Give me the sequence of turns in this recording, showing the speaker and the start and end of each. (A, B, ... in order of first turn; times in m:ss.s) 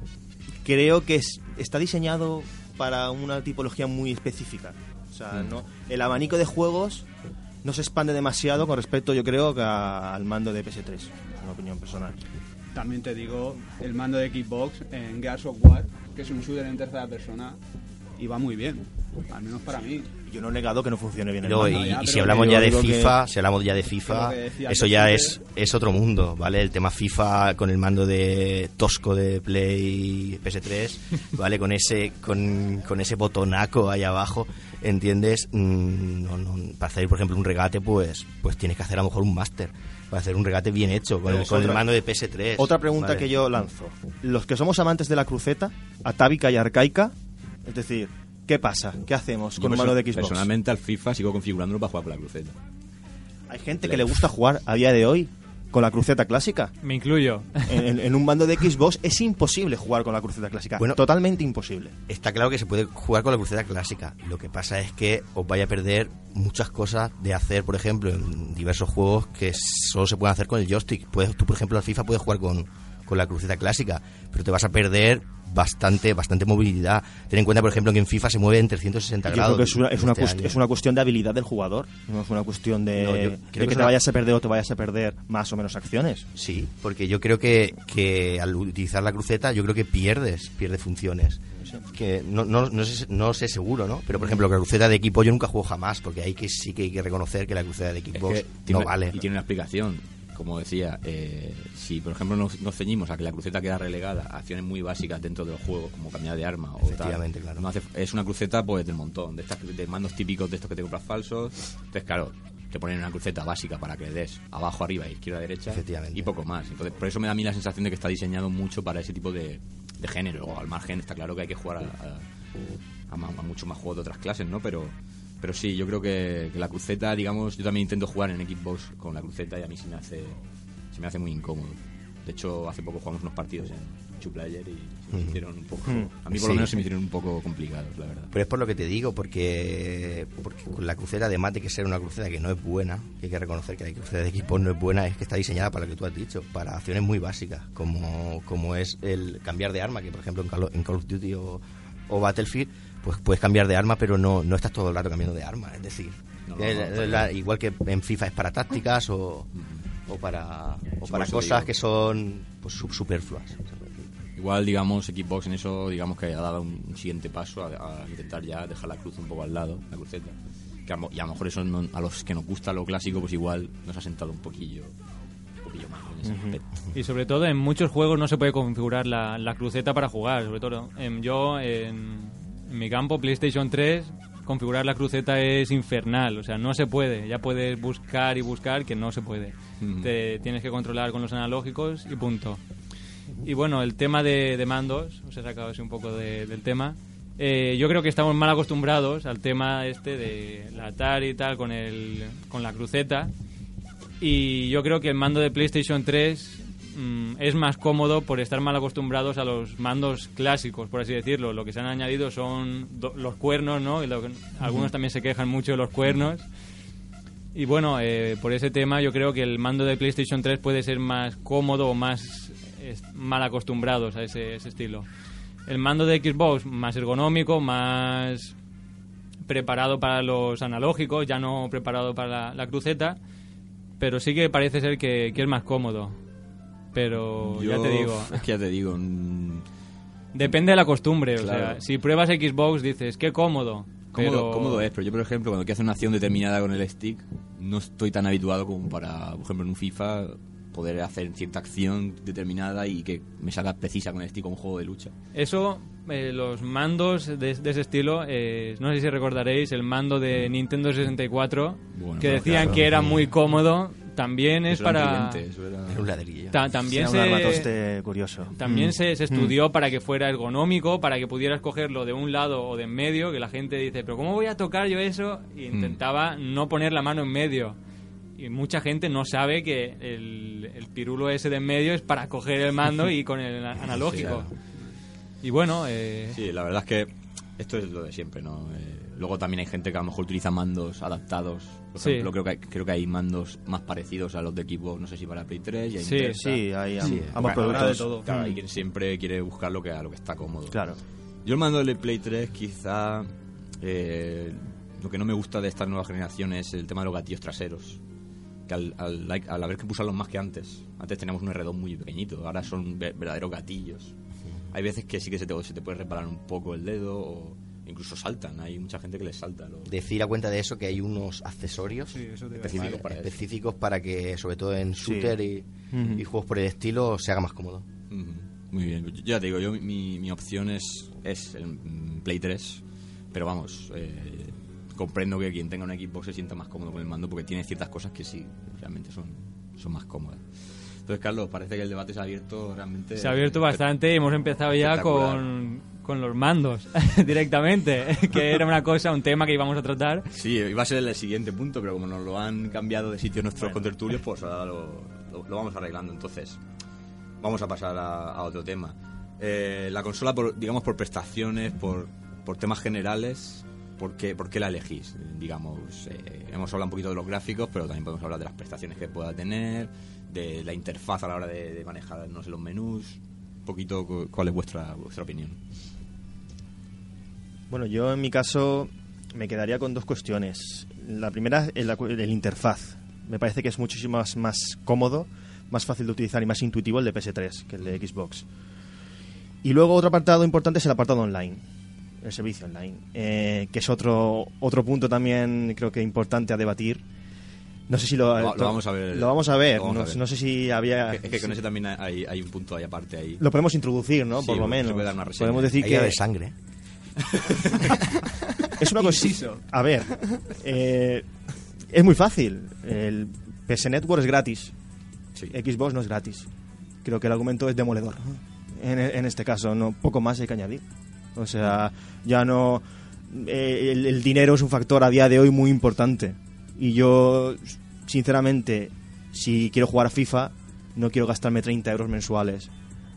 0:00.6-0:07.0 A
0:07.6-0:12.2 A
0:12.7-0:17.6 B
0:18.2-0:20.1 B
0:20.3-0:23.2 A
0:21.4-0:43.3 C
0:21.6-0:22.6 B
0:24.0-0:25.4 B
0:41.2-0:41.8 A
0:42.6-0:47.1 A
0:47.6-0:50.5 A
0:49.6-0:52.5 D
0:53.5-0:56.7 A
0:53.8-0:54.2 D
0:56.8-0:57.8 E
0:57.6-1:01.9 A
1:02.1-1:20.6 C
1:19.3-1:26.3 A
1:22.9-1:24.0 C
1:26.3-1:39.2 C
1:38.1-2:02.2 D
1:46.8-1:47.6 C
1:55.7-1:56.3 C
2:03.1-2:10.4 D
2:10.9-2:18.3 D
2:15.1-2:15.4 C
2:16.3-2:16.7 C
2:18.3-2:39.5 C
2:36.5-2:37.3 D
2:39.6-2:39.8 D
2:40.0-2:44.0 C
2:41.0-2:41.7 D
2:44.4-2:50.3 D
2:50.8-2:54.9 D
2:55.6-2:56.6 D
2:56.2-2:56.6 A
2:56.9-3:12.6 E
3:09.8-3:10.1 D
3:13.4-3:23.3 E
3:24.2-3:36.5 E
3:37.5-3:45.0 E
3:45.7-3:48.5 E
3:49.4-3:53.2 E
3:54.0-3:56.2 E
3:56.9-3:58.4 E
3:57.4-3:59.6 D
4:00.3-4:04.9 E
4:01.4-4:01.8 D
4:04.1-4:15.1 D
4:15.3-4:25.4 E
4:21.9-4:23.1 D
4:22.5-4:23.2 C
4:24.7-4:26.1 D
4:25.9-4:26.7 C
4:26.5-4:27.7 E
4:26.9-4:29.5 A
4:28.6-4:37.8 E
4:35.7-4:36.0 D
4:38.4-4:44.5 E
4:43.9-4:44.5 D
4:45.4-4:46.4 E
4:46.3-5:00.8 D
4:52.0-4:52.3 E
4:56.0-4:56.4 E
4:56.4-4:58.6 A
4:57.4-4:58.3 B
5:00.7-5:01.0 A
5:01.4-5:08.0 D
5:08.7-5:14.1 D
5:14.7-5:20.0 D
5:19.8-5:27.8 C
5:22.1-5:23.0 B
5:22.6-5:23.4 D
5:25.0-5:25.3 A
5:25.9-5:26.2 A
5:28.1-5:43.8 D
5:43.2-5:50.2 E
5:44.8-5:45.4 D
5:50.3-5:56.6 D
5:53.6-5:53.9 E
5:57.4-6:15.6 D
6:17.7-6:28.4 A
6:29.6-6:31.6 A
6:32.2-6:37.0 A
6:37.9-6:41.6 A
6:38.3-6:40.2 D
6:41.0-6:43.4 D
6:43.4-6:46.2 A
6:44.3-6:45.8 D
6:45.8-6:46.5 C
6:47.2-6:48.0 D
6:48.6-6:54.7 A
6:48.9-6:49.6 B
6:55.5-6:56.5 A
6:57.0-7:00.8 A
7:01.3-7:12.7 A